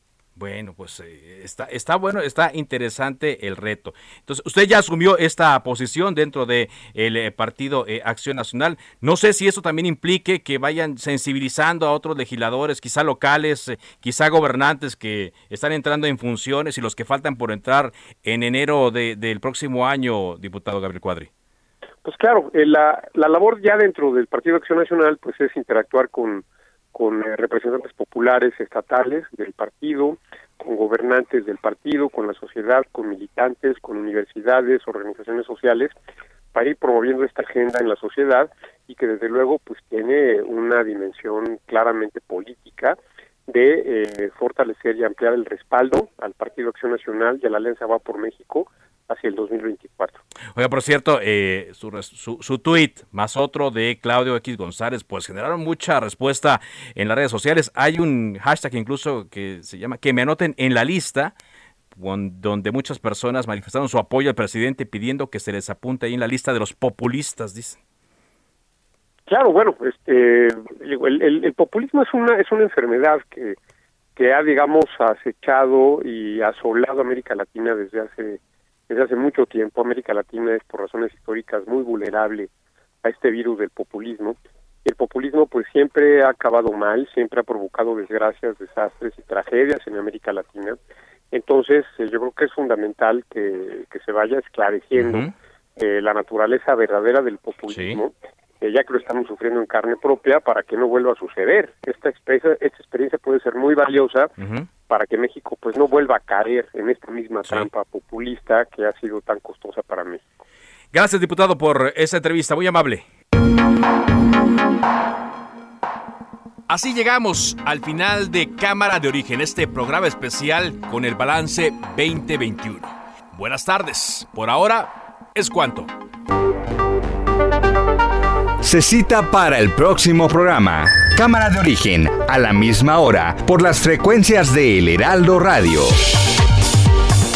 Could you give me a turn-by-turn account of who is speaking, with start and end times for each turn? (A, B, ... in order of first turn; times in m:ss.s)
0:00.4-0:21.3 A
0:22.0-0:36.0 B
0:36.5-0:50.2 B
0:50.6-1:01.4 A
1:02.0-1:07.8 A
1:09.3-1:13.6 B
1:14.2-1:22.5 B
1:23.0-1:30.8 B
1:31.3-1:50.2 B
1:35.0-1:35.3 A
1:37.7-1:38.0 A
1:44.4-1:44.7 A
1:50.9-1:53.0 A
1:56.7-2:05.9 A
2:08.6-2:16.0 C